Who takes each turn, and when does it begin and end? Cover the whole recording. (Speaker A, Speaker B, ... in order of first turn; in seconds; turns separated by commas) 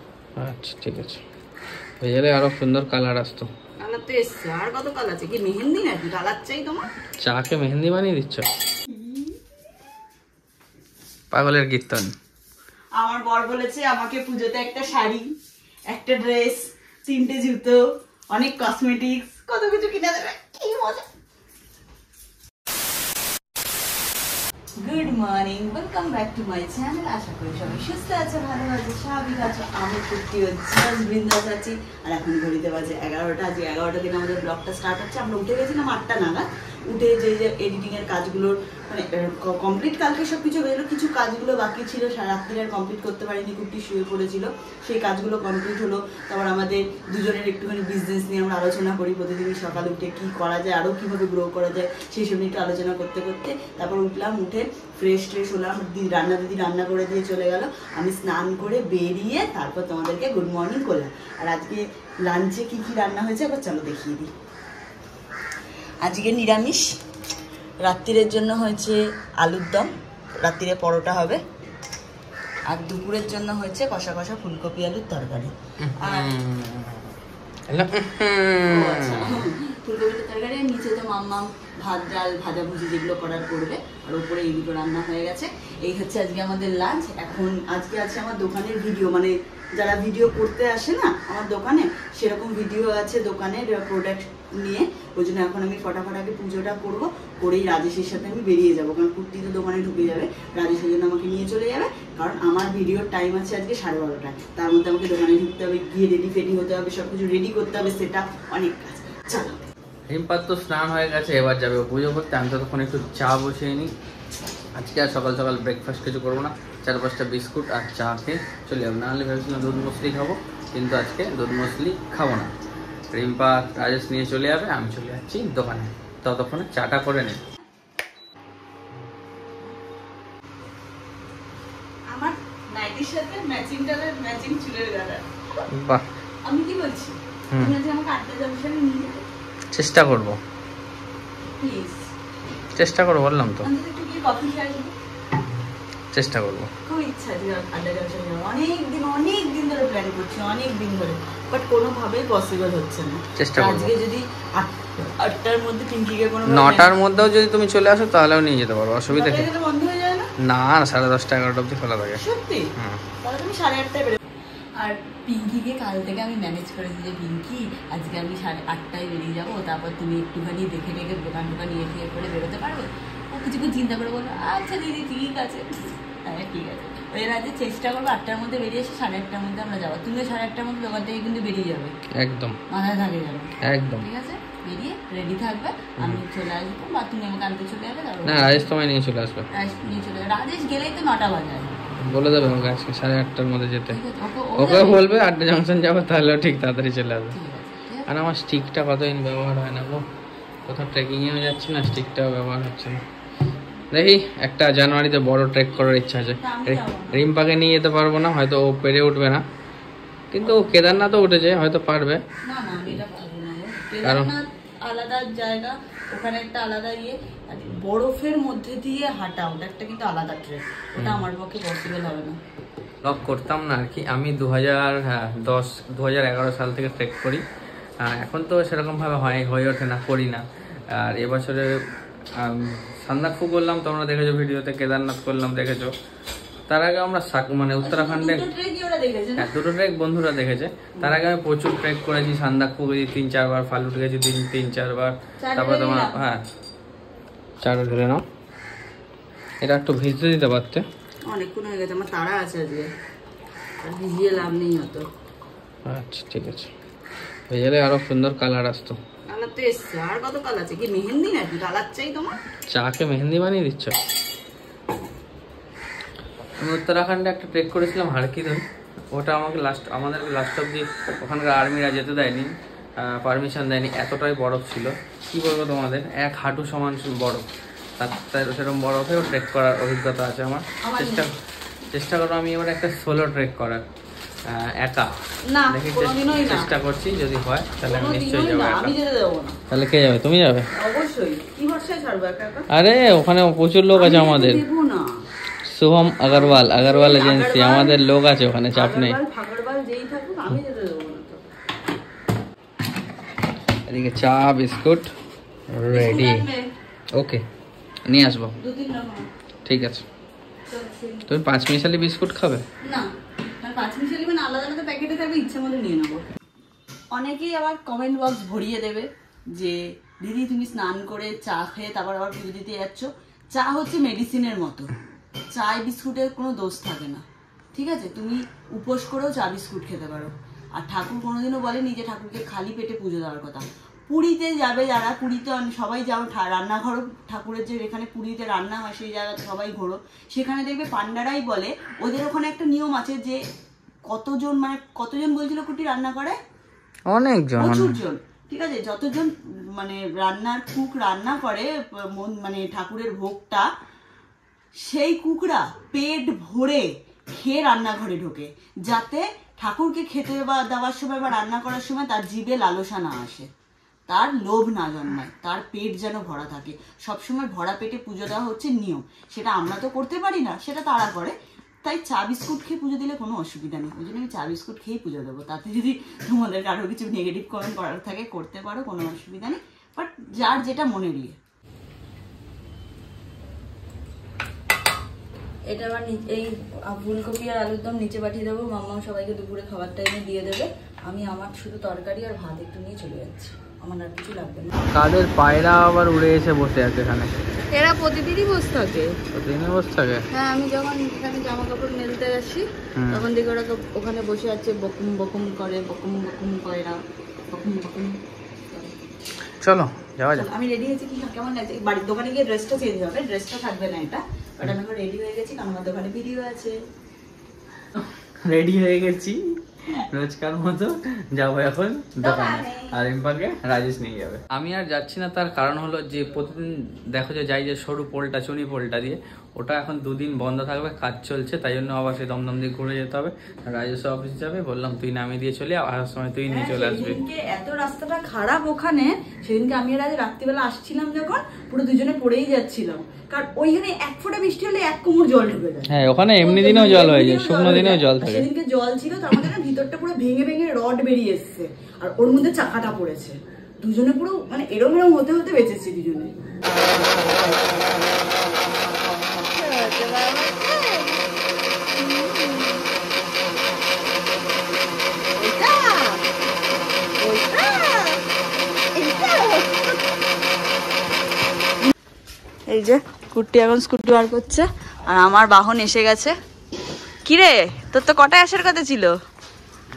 Speaker A: 0.4-1.2, Speaker A: 2.0-3.5, Speaker B: 3.8-6.8, Speaker A: 7.2-8.4, Speaker B: 8.9-9.3, Speaker A: 11.3-12.1, Speaker B: 13.0-15.2, Speaker B: 15.9-17.8, Speaker B: 18.3-21.0, Speaker B: 24.8-64.3, Speaker B: 66.0-66.9, Speaker B: 67.8-69.9, Speaker B: 70.4-71.4, Speaker B: 72.7-76.3, Speaker A: 75.8-77.2, Speaker A: 77.7-79.5, Speaker B: 78.6-109.6, Speaker A: 110.1-113.9, Speaker A: 114.8-122.5, Speaker A: 123.1-127.4, Speaker B: 132.1-135.2, Speaker A: 135.7-136.0, Speaker B: 136.4-139.2, Speaker A: 139.7-140.4, Speaker B: 141.6-142.1, Speaker A: 142.8-143.7, Speaker B: 143.6-144.9, Speaker A: 146.1-146.7, Speaker B: 146.8-157.0, Speaker A: 153.4-153.9, Speaker A: 156.5-159.4, Speaker B: 159.1-160.3, Speaker A: 160.4-162.2, Speaker B: 162.2-162.7, Speaker A: 162.8-163.0, Speaker B: 163.2-164.2, Speaker B: 164.8-181.9, Speaker A: 182.2-182.6, Speaker B: 182.7-188.7, Speaker A: 183.6-184.1, Speaker A: 188.2-189.4, Speaker B: 189.5-191.7, Speaker A: 192.0-194.0, Speaker B: 193.9-195.0, Speaker A: 194.6-197.3, Speaker B: 197.3-198.1, Speaker A: 198.1-200.1, Speaker A: 200.7-203.0, Speaker A: 203.9-209.4, Speaker B: 206.4-207.2, Speaker A: 210.3-212.2, Speaker B: 212.4-222.4, Speaker A: 214.0-214.3, Speaker A: 221.0-221.2, Speaker A: 223.0-227.4, Speaker A: 228.0-230.4, Speaker A: 230.9-231.7, Speaker A: 232.3-235.9, Speaker A: 236.7-238.4, Speaker B: 237.8-239.5, Speaker A: 239.4-246.4, Speaker B: 245.4-246.2, Speaker A: 247.6-248.2, Speaker A: 249.6-250.8, Speaker B: 251.3-252.9, Speaker B: 253.8-255.1, Speaker A: 255.8-256.7, Speaker A: 257.5-259.0, Speaker B: 259.3-262.3, Speaker A: 262.7-263.9, Speaker A: 266.6-277.5, Speaker A: 278.0-281.3, Speaker B: 280.8-281.2, Speaker A: 281.9-283.8, Speaker A: 284.5-285.1, Speaker B: 285.5-286.7, Speaker A: 285.7-288.9, Speaker B: 287.8-289.6, Speaker A: 289.7-290.6, Speaker B: 290.8-292.7, Speaker A: 292.7-294.6, Speaker B: 293.9-295.1, Speaker A: 295.7-299.2, Speaker B: 296.3-298.0, Speaker B: 298.7-301.4, Speaker A: 303.9-305.1, Speaker A: 305.7-306.5, Speaker B: 305.9-306.7, Speaker A: 307.1-307.4, Speaker A: 308.1-308.5, Speaker B: 308.6-309.2, Speaker A: 309.6-310.0, Speaker B: 310.7-311.3, Speaker A: 311.3-312.6, Speaker B: 313.6-316.2, Speaker B: 317.1-324.9, Speaker B: 325.5-343.4, Speaker B: 344.1-346.4, Speaker A: 347.1-348.0, Speaker B: 347.6-353.7, Speaker B: 354.9-363.5, Speaker B: 364.1-381.4, Speaker B: 385.7-394.7, Speaker A: 394.9-397.3, Speaker B: 397.7-399.1, Speaker A: 399.3-400.2, Speaker B: 400.3-408.2, Speaker A: 402.9-403.2, Speaker A: 409.6-410.5, Speaker B: 410.3-416.8, Speaker A: 417.9-437.2, Speaker B: 422.2-422.9, Speaker B: 436.5-445.9, Speaker A: 445.9-448.4, Speaker B: 446.4-456.3, Speaker B: 458.8-461.2, Speaker B: 461.9-462.8, Speaker B: 465.4-466.2, Speaker B: 467.2-468.2, Speaker B: 468.9-469.8, Speaker B: 472.7-476.3, Speaker B: 477.2-479.1